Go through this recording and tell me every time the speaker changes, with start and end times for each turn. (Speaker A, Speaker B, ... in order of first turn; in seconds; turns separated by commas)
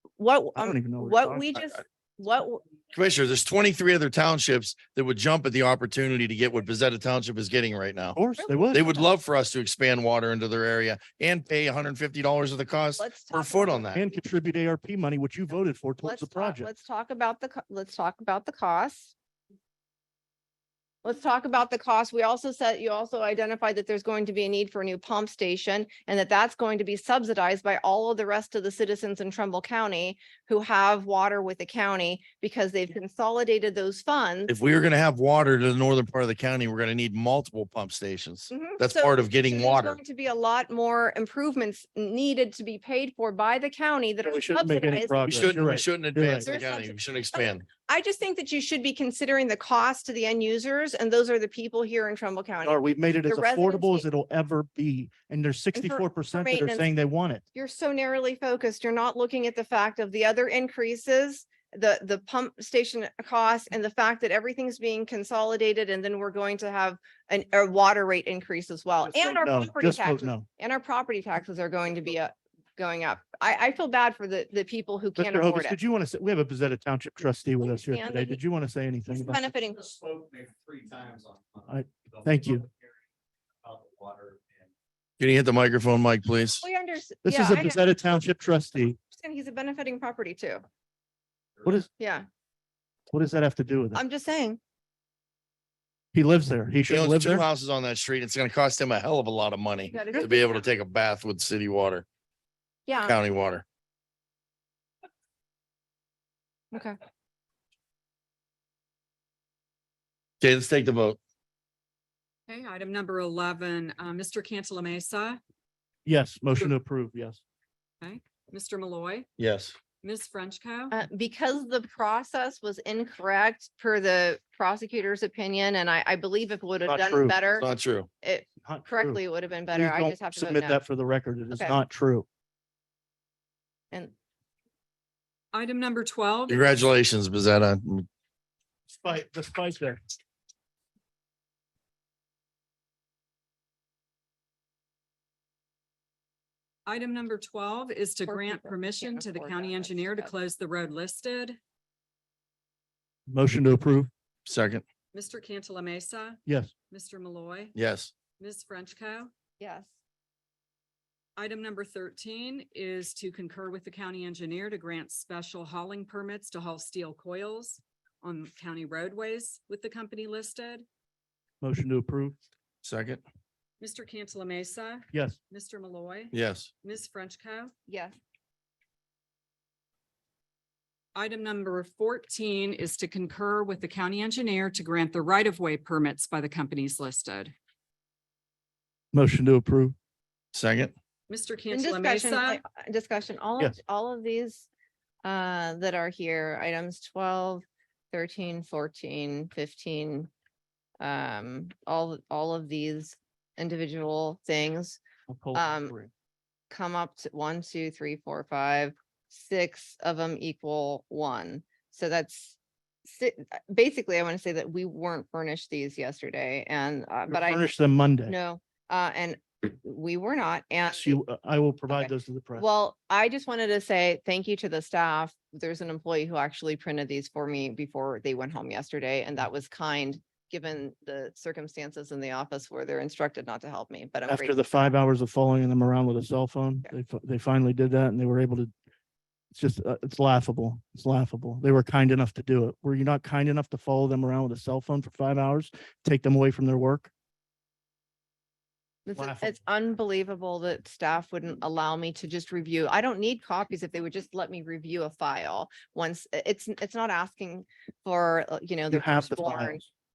Speaker A: 0.2-2.6, Speaker B: 0.6-1.5, Speaker C: 2.9-8.2, Speaker B: 8.2-8.9, Speaker A: 8.4-9.1, Speaker C: 8.7-14.0, Speaker A: 13.0-14.2, Speaker B: 13.9-16.7, Speaker A: 16.0-19.1, Speaker A: 21.0-34.5, Speaker C: 34.5-40.0, Speaker A: 38.5-45.6, Speaker B: 44.2-46.5, Speaker C: 45.3-47.6, Speaker A: 46.4-54.1, Speaker B: 52.6-57.4, Speaker A: 55.7-56.9, Speaker A: 57.5-75.8, Speaker B: 69.2-70.5, Speaker B: 75.2-79.5, Speaker A: 77.6-78.4, Speaker A: 79.1-79.8, Speaker D: 79.8-81.7, Speaker B: 81.7-82.7, Speaker D: 83.6-84.4, Speaker C: 85.2-86.6, Speaker A: 86.6-87.8, Speaker B: 87.2-89.0, Speaker A: 89.1-90.6, Speaker B: 91.6-91.9, Speaker A: 92.0-92.3, Speaker B: 93.1-94.0, Speaker A: 93.9-94.6, Speaker B: 96.1-97.5, Speaker C: 96.9-102.0, Speaker A: 99.9-100.6, Speaker A: 102.9-103.2, Speaker C: 103.0-103.6, Speaker A: 106.7-107.0, Speaker C: 110.4-111.2, Speaker E: 112.5-115.4, Speaker B: 116.0-117.4, Speaker E: 118.0-119.3, Speaker C: 119.4-119.8, Speaker E: 120.0-121.0, Speaker A: 120.9-127.7, Speaker B: 126.8-127.4, Speaker C: 127.5-128.1, Speaker A: 128.2-130.8, Speaker B: 128.6-129.2, Speaker B: 129.7-132.3, Speaker A: 131.5-131.8, Speaker E: 135.5-136.6, Speaker C: 136.5-138.1, Speaker B: 138.9-140.0, Speaker E: 146.9-151.6, Speaker A: 148.3-150.3, Speaker B: 153.3-154.1, Speaker C: 154.5-154.8, Speaker E: 155.1-156.4, Speaker B: 156.5-156.7, Speaker E: 156.9-157.8, Speaker C: 157.8-158.1, Speaker E: 158.4-159.3, Speaker A: 159.6-159.9, Speaker E: 161.4-170.9, Speaker B: 171.6-172.4, Speaker C: 172.8-173.2, Speaker E: 173.8-177.7, Speaker B: 175.1-175.4, Speaker C: 176.3-176.7, Speaker A: 177.9-178.2, Speaker E: 181.2-187.5, Speaker B: 189.1-189.9, Speaker C: 190.5-190.9, Speaker E: 191.3-192.6, Speaker A: 191.7-194.7, Speaker A: 195.2-200.3, Speaker A: 201.0-205.0, Speaker B: 205.3-206.1, Speaker A: 205.6-205.9, Speaker A: 206.7-217.7, Speaker B: 217.3-218.3, Speaker A: 218.3-221.2, Speaker B: 220.9-222.7, Speaker A: 221.9-234.6, Speaker B: 234.3-238.7, Speaker B: 239.5-247.1, Speaker A: 249.1-259.8, Speaker B: 249.2-249.6, Speaker B: 258.9-259.9